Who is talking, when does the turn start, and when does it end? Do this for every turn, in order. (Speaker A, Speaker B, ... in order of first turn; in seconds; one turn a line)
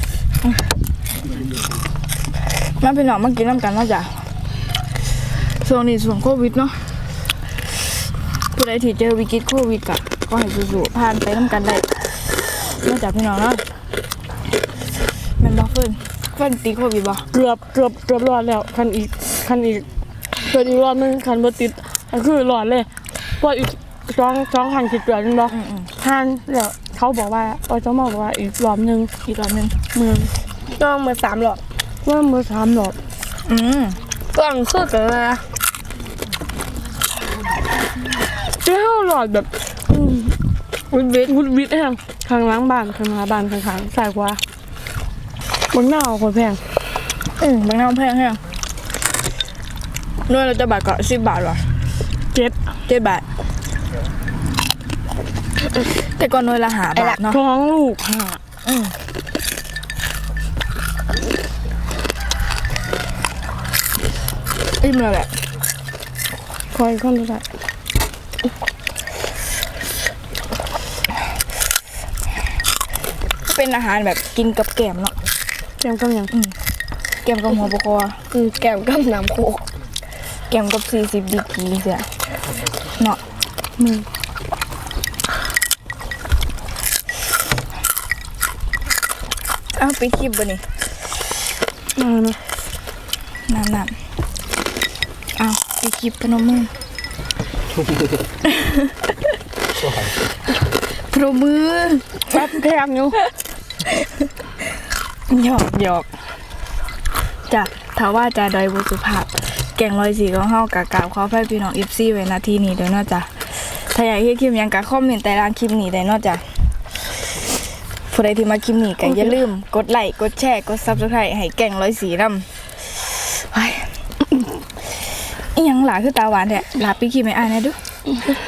Speaker A: 2.8-4.3
Speaker A: 5.5-6.8
Speaker A: 8.5-13.6
Speaker A: 15.4-17.3
Speaker B: 17.3-19.9
Speaker B: 20.4-22.9
Speaker B: 23.4-29.1
Speaker A: 25.5-25.9
Speaker A: 29.2-29.8
Speaker B: 29.9-30.3
Speaker C: 30.7-31.6
Speaker B: 32.0-33.0
Speaker A: 33.5-34.0
Speaker C: 34.3-35.5
Speaker B: 38.6-39.5
Speaker A: 40.9-41.3
Speaker B: 41.3-44.4
Speaker B: 45.7-46.6
Speaker A: 47.4-48.4
Speaker A: 50.3-51.6
Speaker A: 52.9-53.2
Speaker A: 56.0-57.4
Speaker B: 57.3-58.4
Speaker A: 58.6-59.0
Speaker A: 64.8-65.3
Speaker B: 66.7-67.5
Speaker A: 73.5-75.2
Speaker B: 75.8-76.3
Speaker A: 77.2-78.2
Speaker C: 78.3-79.7
Speaker A: 80.5-82.1
Speaker B: 83.8-84.1
Speaker A: 89.8-90.7
Speaker B: 92.0-92.4
Speaker A: 93.5-94.0
Speaker A: 95.4-96.7
Speaker A: 101.0-102.3
Speaker B: 102.3-103.2
Speaker A: 105.3-106.1
Speaker A: 107.5-116.6
Speaker A: 118.1-122.5
Speaker A: 123.2-123.9
Speaker A: 125.4-127.8